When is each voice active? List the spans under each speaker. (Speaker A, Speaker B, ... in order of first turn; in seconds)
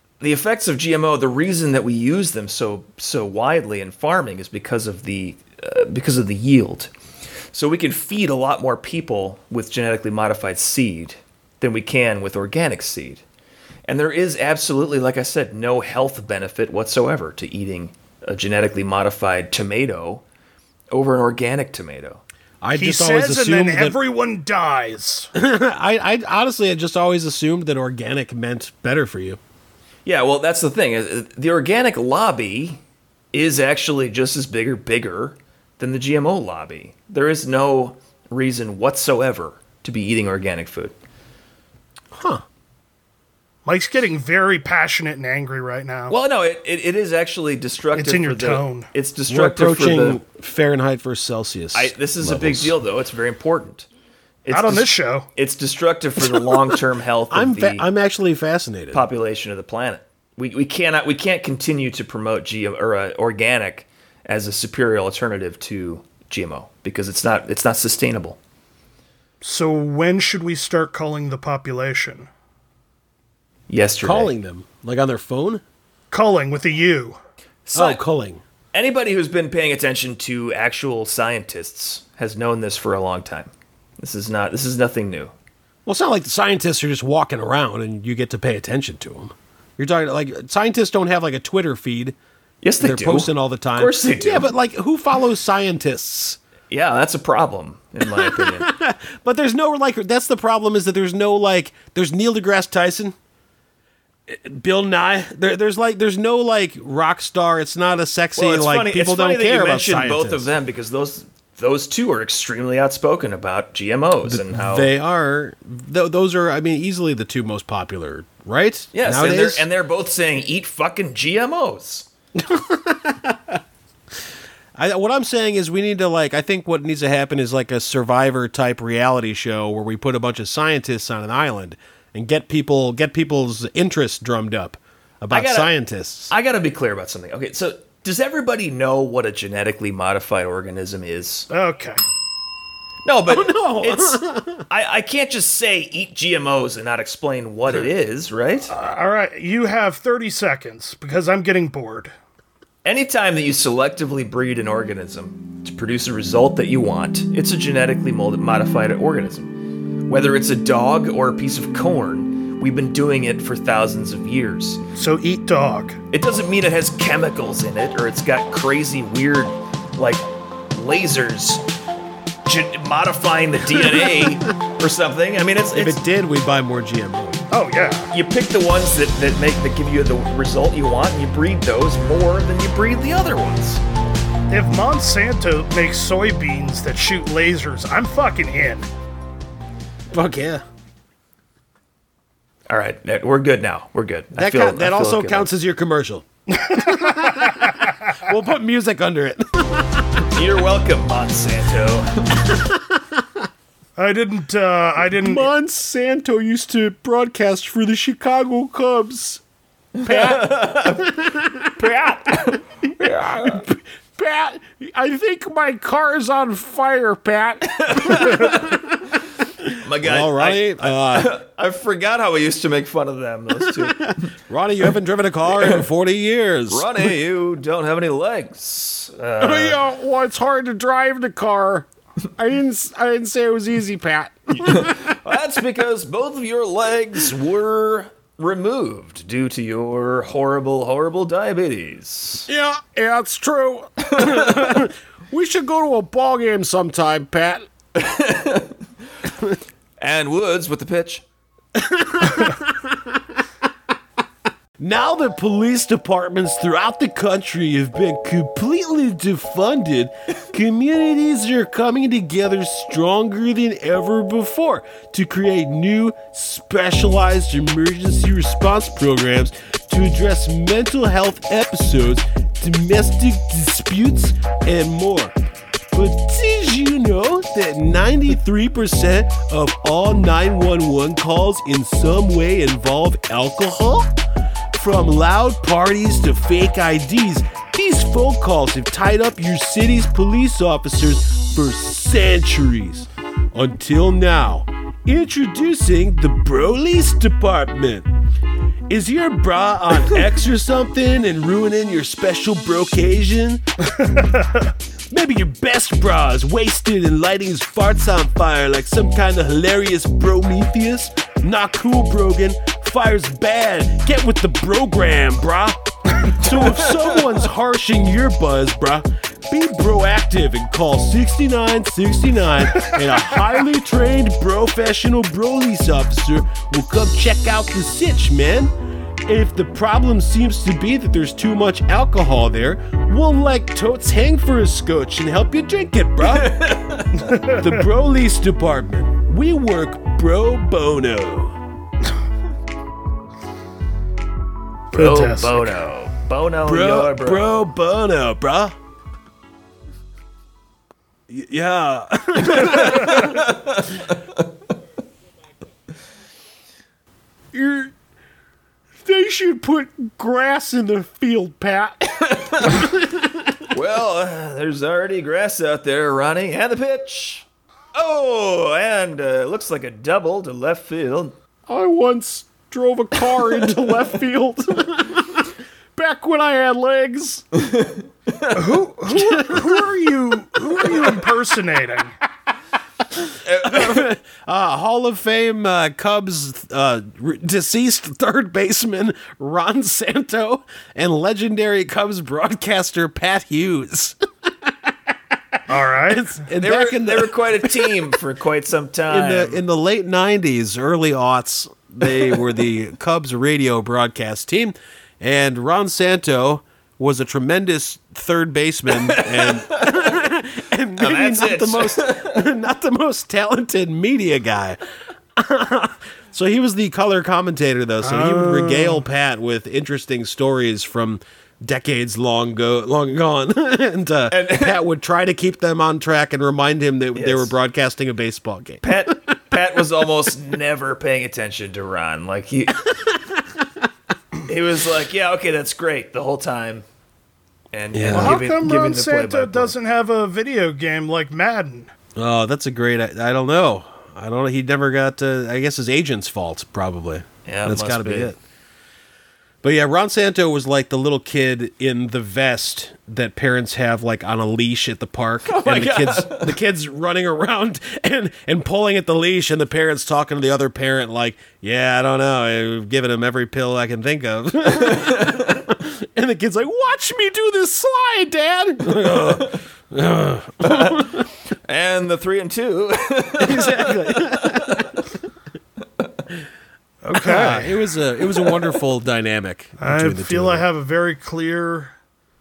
Speaker A: 0.2-6.9, 7.5-13.2, 13.9-20.2, 20.9-22.2, 30.1-32.8, 33.3-40.9, 46.1-50.2, 51.7-53.9, 54.4-57.9, 58.9-68.4, 73.7-74.3, 77.7-78.0, 78.7-85.3, 92.6-94.5, 96.7-98.7, 108.4-114.9, 118.9-122.1, 135.3-135.7, 136.3-141.5, 143.1-148.7, 152.8-159.6, 160.1-164.8, 166.1-171.6, 172.4-176.0, 178.1-183.8, 192.7-195.5, 200.3-202.3, 209.9-211.2, 211.7-213.6, 217.6-218.8, 219.8-224.3, 225.5-225.9, 226.7-229.8, 234.6-242.5, 244.1-244.8, 247.9-248.8, 250.0-251.2, 316.5-317.0, 336.2-337.3, 344.9-347.6, 352.5-354.4, 362.3-362.8, 363.7-371.4, 377.6-378.6, 383.4-384.1, 396.6-399.6, 402.1-402.4, 408.9-410.1, 411.0-412.4, 424.3-424.8, 427.1-427.5, 428.8-432.9, 434.4-436.9, 437.7-439.7, 447.4-448.3, 455.4-456.6, 464.8-465.6, 469.1-469.6, 470.6-475.0, 478.3-478.7
Speaker B: 22.6-24.0, 25.4-29.4, 42.1-42.4, 49.3-52.8, 56.2-56.8, 57.3-59.0, 74.0-75.6, 77.7-78.4, 85.9-92.2, 92.8-96.4, 98.0-103.2, 104.3-110.5, 114.3-119.6, 122.4-123.6, 124.8-136.3, 143.3-144.7, 173.8-174.3, 175.7-177.4, 190.1-190.6, 194.3-200.3, 202.4-203.4, 205.0-209.4, 210.0-212.0, 212.8-221.3, 223.6-227.1, 229.4-235.2, 242.5-247.7, 251.8-253.4, 254.8-275.4, 275.9-284.1, 284.7-298.1, 298.9-303.6, 305.1-328.7, 329.2-336.7, 337.3-341.6, 346.6-348.8, 351.3-353.5, 357.5-357.9, 359.0-363.7, 371.7-377.4, 379.1-379.9, 380.6-381.3, 383.2-398.1, 399.1-414.8, 415.4-429.1, 432.9-433.7, 437.9-438.4, 442.1-448.4, 449.6-471.3, 473.4-475.1, 477.1-480.6
Speaker C: 22.7-25.3, 43.6-46.1, 47.9-48.9, 54.5-55.3, 69.4-72.3, 76.1-77.2, 141.5-142.0, 148.7-152.1, 164.9-166.0, 177.5-178.1, 184.5-188.9, 196.5-197.9, 204.0-205.5, 303.9-304.7, 337.2-337.8, 344.9-345.8, 378.5-382.1, 395.7-396.4, 418.0-419.0, 438.1-441.9, 477.0-477.8, 479.8-481.9